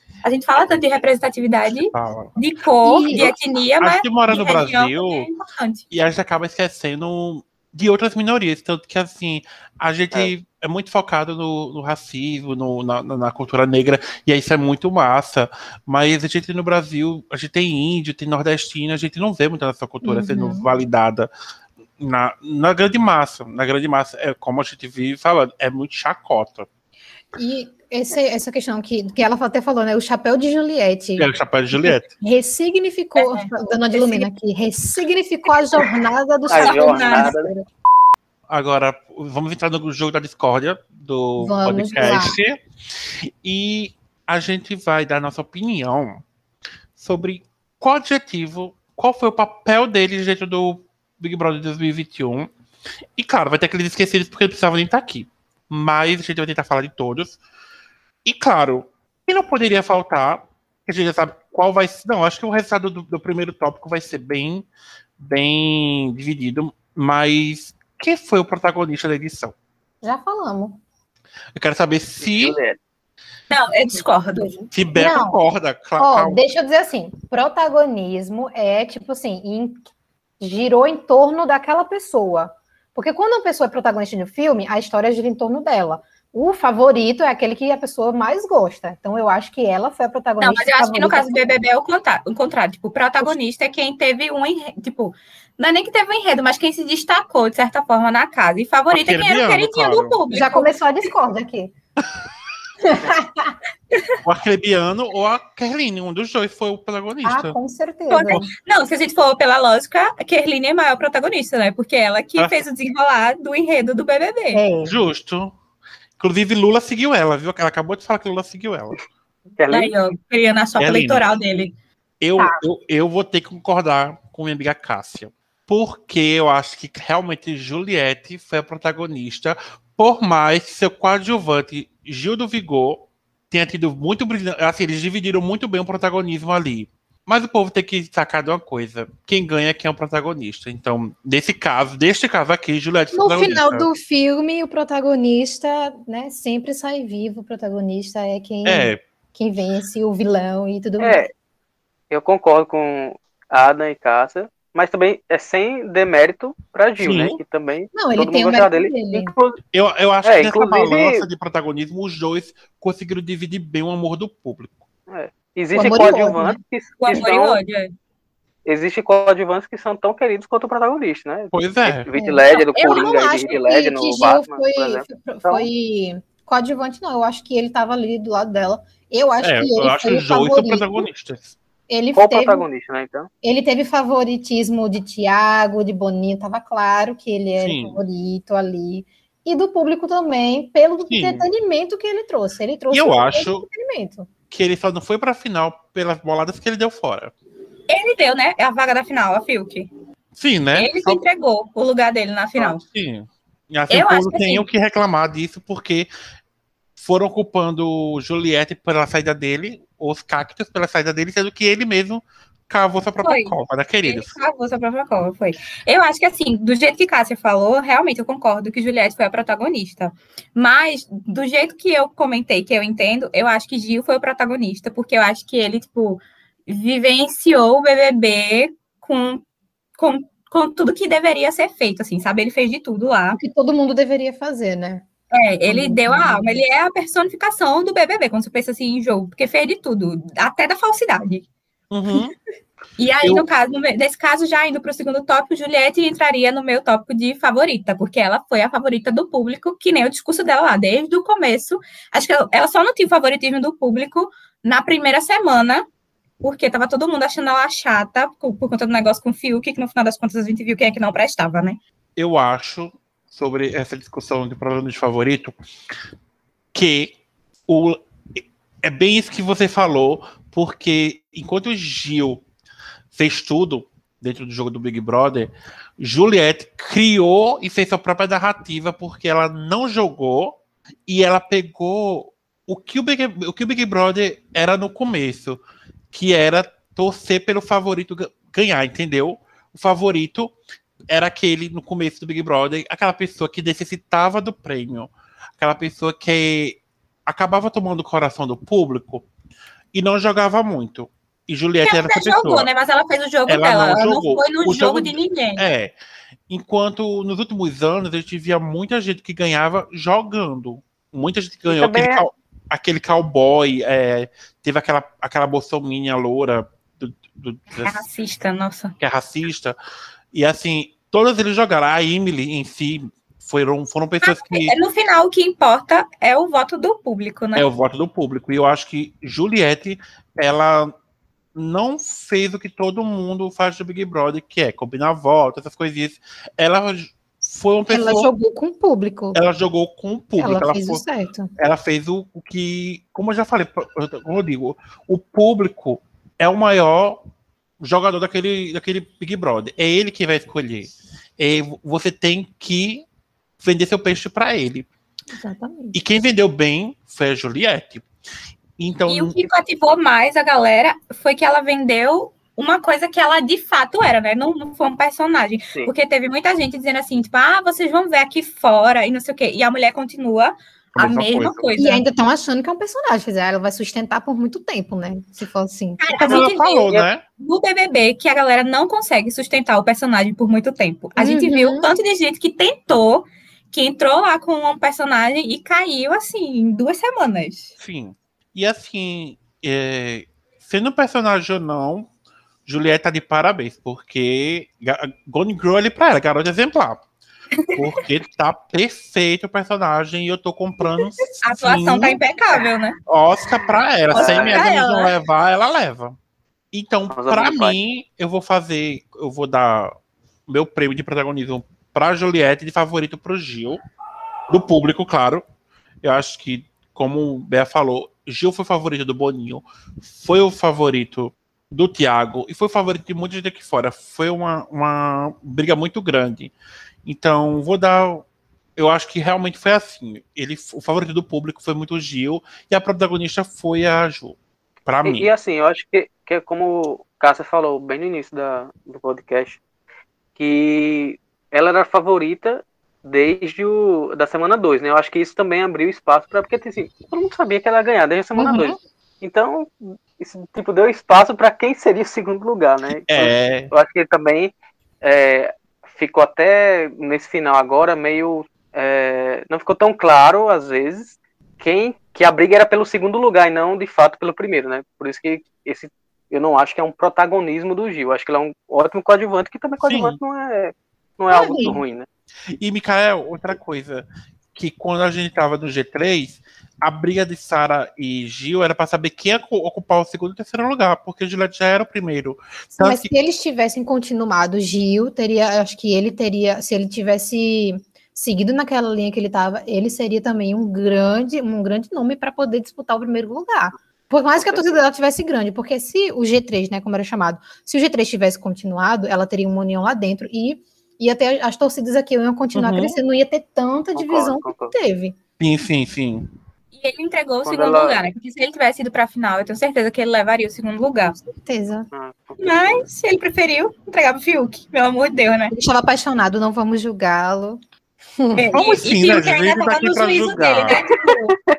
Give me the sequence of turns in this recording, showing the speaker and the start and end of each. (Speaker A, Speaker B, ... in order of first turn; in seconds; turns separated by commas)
Speaker A: 0.2-5.8, Speaker B: 1.8-2.4, Speaker C: 2.8-3.3, Speaker B: 3.1-5.3, Speaker B: 5.9-21.3, Speaker C: 20.0-20.7, Speaker B: 22.0-26.7, Speaker C: 27.4-31.3, Speaker B: 31.2-32.1, Speaker C: 32.1-37.7, Speaker A: 33.2-34.3, Speaker D: 36.5-37.5, Speaker A: 36.5-37.3, Speaker B: 38.5-42.6, Speaker C: 41.4-42.4, Speaker B: 43.2-46.2, Speaker B: 47.0-52.5, Speaker B: 53.2-57.4, Speaker B: 58.2-64.7, Speaker B: 65.2-69.5, Speaker C: 70.0-70.8, Speaker B: 71.5-72.6, Speaker D: 72.2-72.8, Speaker A: 73.5-74.6, Speaker C: 74.4-75.4, Speaker B: 74.7-76.4, Speaker C: 76.0-79.8, Speaker C: 80.4-91.4, Speaker A: 90.4-100.7, Speaker B: 98.9-100.2, Speaker C: 100.3-101.7, Speaker C: 102.8-103.6, Speaker B: 104.2-107.6, Speaker C: 107.2-108.5, Speaker A: 108.1-114.6, Speaker B: 112.4-112.7, Speaker C: 114.5-115.0, Speaker B: 114.8-115.5, Speaker B: 116.2-119.0, Speaker D: 119.6-119.9, Speaker A: 119.7-121.7, Speaker B: 120.8-121.3, Speaker B: 122.2-143.9, Speaker C: 143.1-151.3, Speaker B: 148.7-149.0, Speaker D: 151.0-151.3, Speaker D: 152.1-159.6, Speaker B: 157.0-157.4, Speaker C: 157.9-159.3, Speaker B: 159.7-164.8, Speaker D: 160.2-161.2, Speaker D: 165.1-167.6, Speaker C: 165.7-166.6, Speaker A: 167.0-167.9, Speaker D: 168.7-175.7, Speaker B: 171.5-172.1, Speaker C: 172.1-181.1, Speaker A: 172.8-173.1, Speaker B: 179.4-181.6, Speaker C: 181.9-182.7, Speaker D: 182.2-183.3, Speaker C: 183.4-194.3, Speaker B: 187.6-188.0, Speaker B: 191.1-191.5, Speaker B: 192.9-193.7, Speaker B: 194.5-197.3, Speaker A: 197.9-199.9, Speaker B: 200.4-201.2, Speaker A: 200.8-202.8, Speaker B: 202.6-206.1, Speaker A: 203.9-204.7, Speaker B: 207.0-214.4, Speaker A: 213.2-229.4, Speaker A: 230.0-233.4, Speaker C: 233.3-235.1, Speaker A: 235.3-241.5, Speaker C: 235.7-236.6, Speaker B: 241.9-242.3, Speaker A: 243.0-255.8, Speaker A: 256.4-261.8, Speaker B: 262.2-265.6, Speaker B: 266.7-267.2, Speaker B: 267.7-272.4, Speaker B: 273.1-285.6, Speaker B: 286.1-290.6, Speaker B: 291.1-299.3, Speaker B: 299.9-302.7, Speaker A: 301.8-305.7, Speaker B: 303.5-305.9, Speaker B: 306.5-318.1, Speaker D: 311.7-312.2, Speaker A: 317.7-318.9, Speaker B: 319.0-319.8, Speaker B: 320.3-324.8, Speaker A: 324.2-327.7, Speaker B: 327.6-330.9, Speaker B: 331.6-338.3, Speaker C: 337.9-339.4, Speaker B: 339.3-341.1, Speaker C: 340.4-341.5, Speaker B: 341.6-347.2, Speaker B: 347.8-353.1, Speaker B: 353.6-354.9, Speaker C: 355.4-355.9, Speaker B: 355.9-358.1, Speaker B: 358.8-359.4, Speaker A: 359.1-372.0, Speaker B: 370.9-371.6, Speaker C: 371.8-376.1, Speaker A: 376.0-387.7, Speaker B: 376.2-377.2, Speaker C: 381.2-381.9, Speaker B: 387.8-392.1, Speaker B: 392.7-397.0, Speaker B: 397.8-402.2, Speaker A: 401.4-403.0, Speaker B: 403.1-406.2, Speaker A: 404.1-405.1, Speaker D: 404.1-404.6, Speaker B: 406.7-409.9, Speaker D: 407.1-407.8, Speaker B: 410.5-413.8, Speaker B: 414.5-415.4, Speaker B: 416.0-426.5, Speaker B: 427.1-435.3, Speaker D: 435.0-439.6, Speaker D: 440.4-454.5, Speaker C: 448.4-448.7, Speaker B: 453.1-453.7, Speaker D: 455.0-472.1, Speaker B: 469.8-470.2, Speaker C: 471.3-471.8, Speaker B: 472.6-483.1, Speaker C: 482.8-505.2, Speaker D: 494.4-494.8, Speaker B: 502.6-503.0, Speaker D: 503.9-504.7, Speaker B: 505.4-506.3, Speaker A: 506.8-511.2, Speaker D: 507.4-508.0, Speaker C: 511.4-511.9, Speaker D: 511.9-512.8, Speaker A: 512.4-515.5, Speaker C: 515.5-517.6, Speaker C: 518.2-518.6, Speaker A: 518.4-521.2, Speaker B: 518.5-520.8